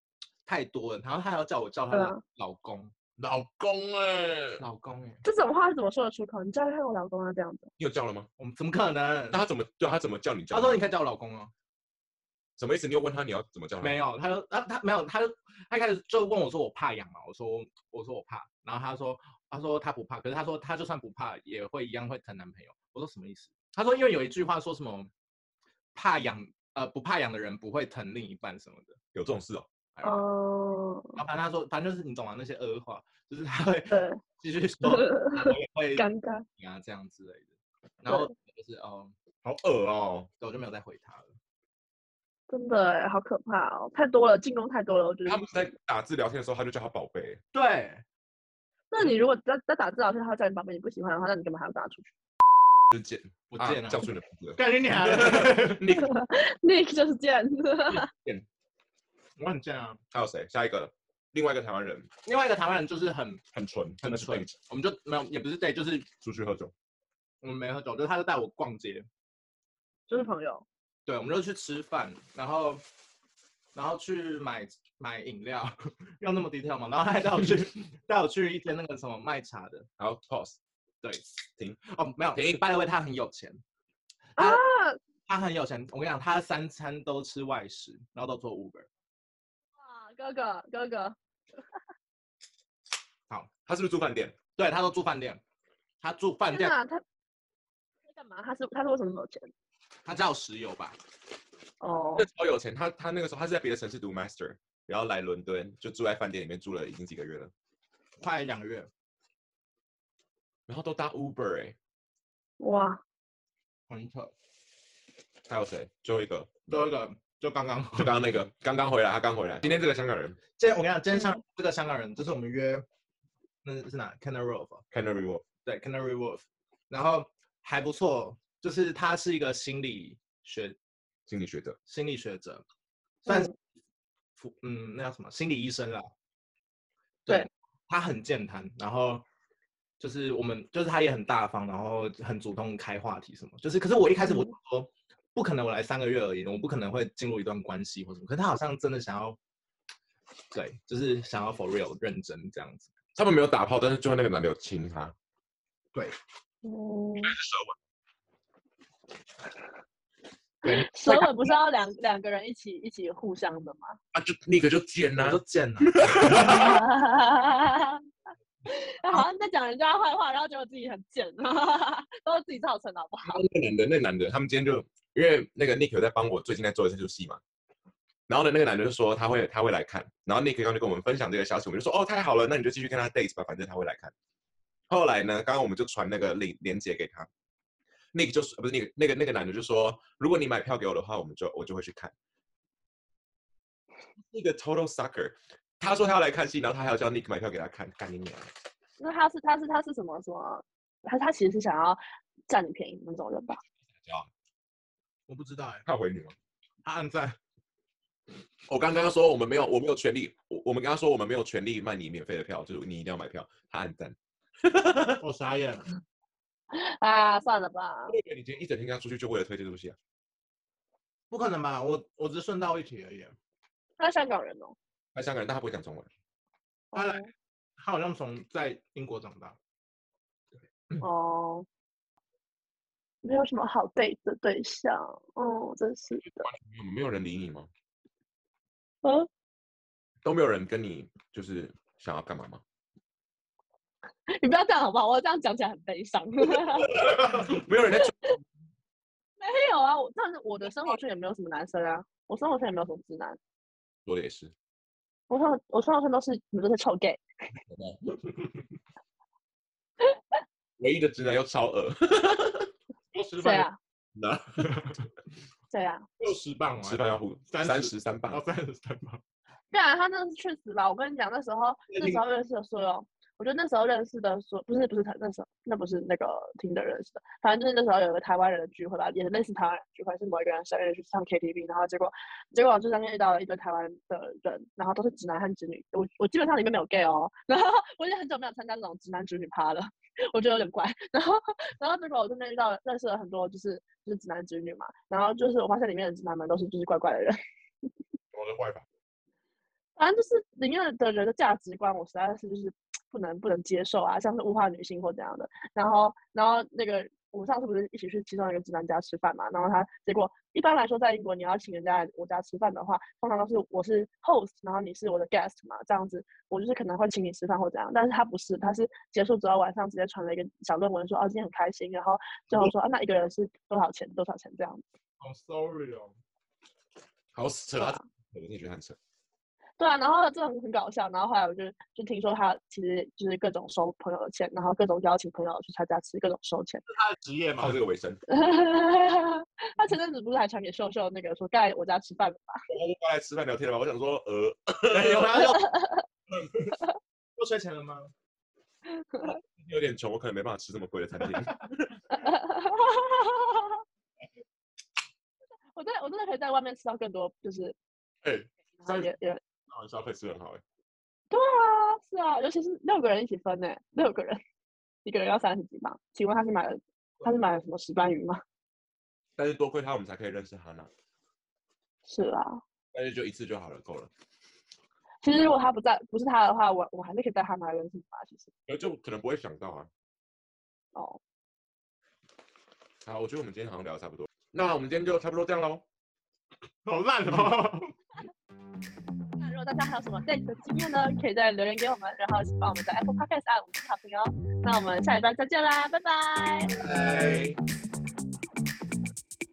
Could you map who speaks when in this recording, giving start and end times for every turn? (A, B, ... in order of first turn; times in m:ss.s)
0:00.4-0:02.9 A
0:01.9-0:02.2 B
0:03.2-0:04.6 C
0:04.6-0:05.2 A
0:05.2-0:07.7 B
0:07.8-0:08.3 C
0:08.4-0:09.4 A
0:09.3-0:10.9 C
0:10.5-0:11.5 A
0:12.6-0:14.0 C
0:13.8-0:25.1 A
0:26.0-0:29.0 A
0:29.2-0:29.7 C
0:30.0-0:30.2 A
0:30.0-0:31.2 B
0:31.2-0:36.1 A
0:33.9-0:34.2 B
0:34.8-0:36.4 B
0:36.6-0:39.1 A
0:39.4-0:40.3 C
0:40.4-0:41.4 A
0:42.5-0:45.7 B
0:45.2-0:47.4 C
0:47.5-0:48.0 A
0:48.9-0:52.1 B
0:52.9-0:56.2 C
0:52.9-0:55.9 A
0:55.9-0:58.1 B
0:57.9-0:58.5 C
0:59.4-1:00.0 A
1:00.1-1:02.1 C
1:02.2-1:03.5 A
1:03.5-1:04.6 C
1:04.0-1:06.1 A
1:06.2-1:06.7 C
1:07.4-1:09.1 A
1:10.1-1:10.6 B
1:11.1-1:12.8 A
1:13.7-1:19.9 A
1:20.0-1:20.6 C
1:21.0-1:23.6 A
1:22.3-1:22.6 C
1:24.4-1:24.6 A
1:24.4-1:25.0 B
1:25.3-1:28.9 A
1:29.8-1:31.2 B
1:33.7-1:34.4 C
1:34.6-1:35.4 A
1:36.0-1:36.8 A
1:36.5-1:37.0 B
1:38.1-1:39.5 B
1:40.0-1:41.0 A
1:41.8-1:42.3 B
1:42.2-1:47.5 C
1:48.2-1:48.9 A
1:50.7-1:51.8 C
1:52.6-1:53.0 B
1:53.9-1:54.3 A
1:55.5-1:56.9 C
1:56.7-1:58.2 A
1:58.0-2:00.4 C
2:00.6-2:02.8 A
2:03.6-2:04.8 A
2:04.9-2:05.4 C
2:05.6-2:10.8 A
2:11.3-2:11.8 C
2:11.9-2:12.6 A
2:13.2-2:13.5 A
2:13.3-2:13.5 B
2:14.4-2:16.1 A
2:17.3-2:19.2 A
2:20.0-2:29.4 A
2:24.2-2:24.5 B
2:30.5-2:32.9 A
2:33.2-2:35.2 C
2:36.6-2:37.4 B
2:37.2-2:37.8 C
2:40.6-2:40.9 A
2:40.6-2:44.0 B
2:44.1-2:46.9 C
2:45.2-2:46.8 A
2:46.5-2:48.0 B
2:48.7-2:53.4 B
2:53.2-2:57.4 C
2:58.3-3:04.1 C
3:04.9-3:07.3 C
3:08.1-3:12.1 C
3:14.2-3:18.5 C
3:19.0-3:23.6 B
3:23.9-3:24.3 C
3:25.3-3:25.8 A
3:25.8-3:26.4 C
3:26.8-3:27.4 A
3:28.7-3:35.2 C
3:35.2-3:36.0 A
3:36.7-3:38.2 B
3:38.1-3:40.0 C
3:41.3-3:43.4 A
3:44.0-3:44.8 B
3:45.1-3:46.1 C
3:46.9-3:47.3 B
3:46.9-3:47.2 A
3:47.8-3:49.6 A
3:51.0-3:51.7 B
3:53.2-3:56.5 B
3:56.3-3:57.7 C
3:59.0-3:59.3 B
4:00.2-4:02.6 C
4:04.3-4:06.9 B
4:06.6-4:08.3 C
4:08.0-4:08.3 B
4:09.4-4:13.4 B
4:14.1-4:14.5 C
4:15.3-4:17.2 B
4:17.7-4:18.2 C
4:20.8-4:22.7 C
4:23.1-4:23.7 A
4:23.4-4:23.8 B
4:24.2-4:24.9 C
4:24.6-4:25.1 A
4:25.7-4:26.0 B
4:26.2-4:29.2 A
4:26.8-4:28.4 C
4:29.7-4:57.4 B
4:31.9-4:32.2 A
4:58.3-4:58.9 C
5:00.0-5:24.8 B
5:25.2-5:26.2 A
5:27.3-5:29.0 C
5:27.8-5:28.0 B
5:29.8-5:36.8 B
5:36.9-5:37.8 A
5:37.6-5:38.2 C
5:38.3-5:42.6 B
5:42.7-5:45.6 C
5:44.9-5:45.7 A
5:45.6-5:46.0 B
5:47.4-5:48.1 A
5:49.0-5:49.4 B
5:49.6-5:52.0 C
5:52.1-5:53.8 B
5:55.8-5:57.8 B
5:58.2-5:59.1 C
5:58.8-5:59.4 B
5:59.7-6:00.6 C
6:01.3-6:04.4 B
6:05.0-6:08.4 B
6:09.4-6:10.9 C
6:12.0-6:12.6 B
6:12.9-6:14.1 C
6:15.2-6:18.5 B
6:18.7-6:19.9 C
6:23.0-6:25.8 C
6:26.9-6:27.9 A
6:29.4-6:36.7 B
6:36.8-6:37.6 C
6:36.8-6:37.5 A